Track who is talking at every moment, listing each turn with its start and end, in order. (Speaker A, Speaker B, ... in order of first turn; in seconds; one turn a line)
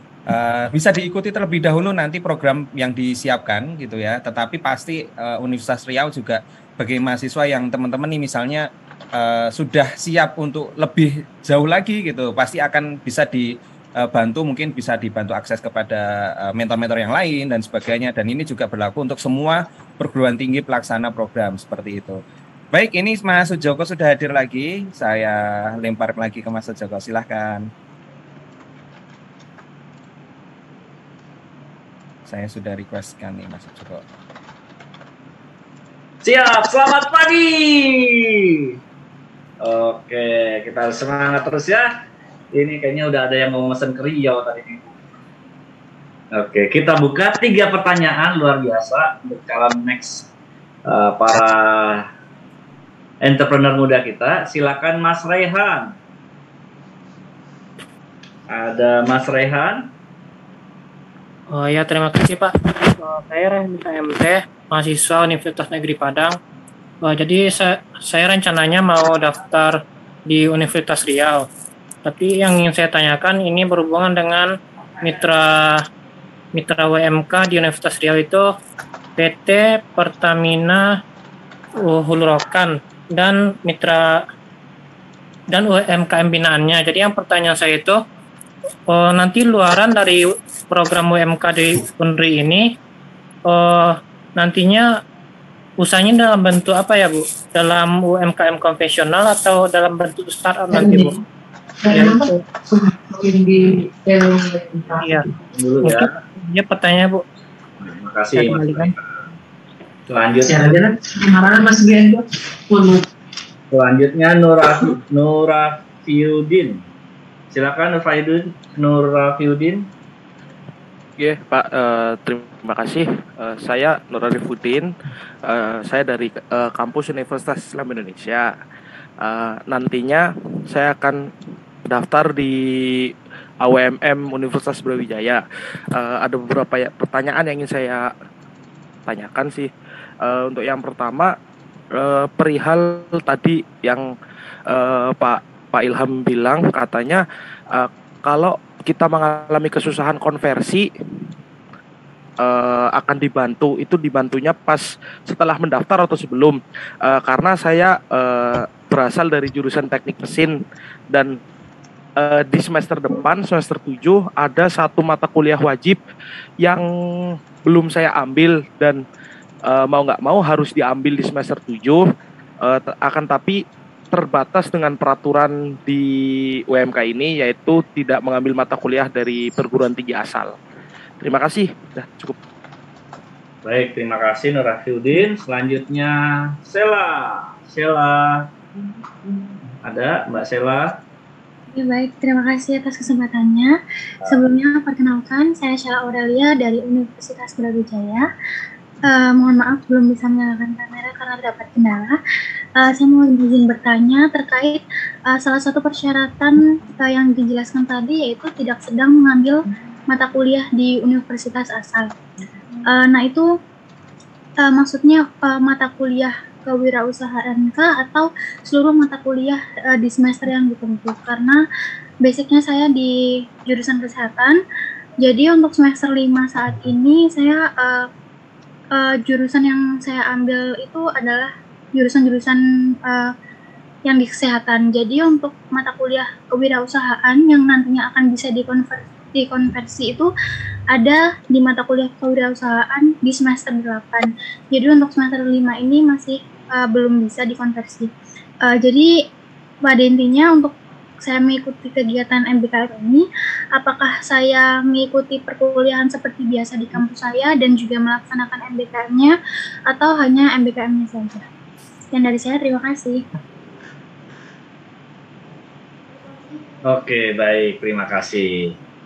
Speaker A: 0.3-22.2
Speaker A: 22.7-27.7
Speaker A: 32.3-34.0
Speaker B: 36.2-38.7
Speaker B: 39.6-41.9
Speaker B: 42.5-45.0
Speaker B: 46.4-50.3
Speaker B: 50.9-52.1
Speaker B: 53.2-55.9
Speaker B: 58.5-59.9
Speaker C: 61.5-66.4
Speaker C: 67.1-71.5
Speaker C: 72.0-75.8
Speaker C: 76.5-78.5
Speaker C: 79.2-80.8
Speaker C: 81.9-84.0
Speaker C: 85.5-88.0
Speaker C: 88.9-92.6
Speaker C: 93.5-94.9
Speaker C: 95.8-101.1
Speaker C: 105.0-105.2
Speaker B: 105.5-106.1
Speaker C: 105.8-107.2
Speaker B: 107.8-109.2
Speaker C: 108.4-108.9
Speaker B: 110.1-110.6
Speaker B: 113.7-116.8
Speaker B: 117.5-119.8
Speaker D: 121.2-124.9
Speaker D: 125.5-128.5
Speaker D: 129.2-131.2
Speaker D: 131.9-132.6
Speaker D: 133.6-135.4
Speaker D: 136.0-138.1
Speaker D: 139.1-139.7
Speaker D: 140.2-141.3
Speaker D: 142.0-144.1
Speaker D: 144.7-147.2
Speaker D: 147.7-150.9
Speaker D: 152.4-160.5
Speaker D: 162.2-166.0
Speaker D: 167.7-169.0
Speaker D: 169.7-172.0
Speaker D: 172.6-173.6
Speaker D: 174.1-176.1
Speaker D: 176.7-180.6
Speaker D: 181.2-182.4
Speaker B: 183.7-188.5
Speaker B: 189.8-191.0
Speaker E: 191.7-193.8
Speaker B: 194.2-194.5
Speaker E: 194.3-198.3
Speaker E: 199.1-202.2
Speaker E: 202.8-212.1
Speaker E: 212.9-213.5
Speaker E: 214.6-221.6
Speaker E: 222.2-224.6
Speaker E: 225.2-228.1
Speaker E: 228.9-233.3
Speaker E: 234.1-240.3
Speaker E: 240.9-248.1
Speaker E: 248.7-249.2
Speaker E: 249.8-253.2
Speaker E: 253.8-259.4
Speaker E: 259.9-261.5
Speaker E: 262.1-263.3
Speaker B: 266.9-268.8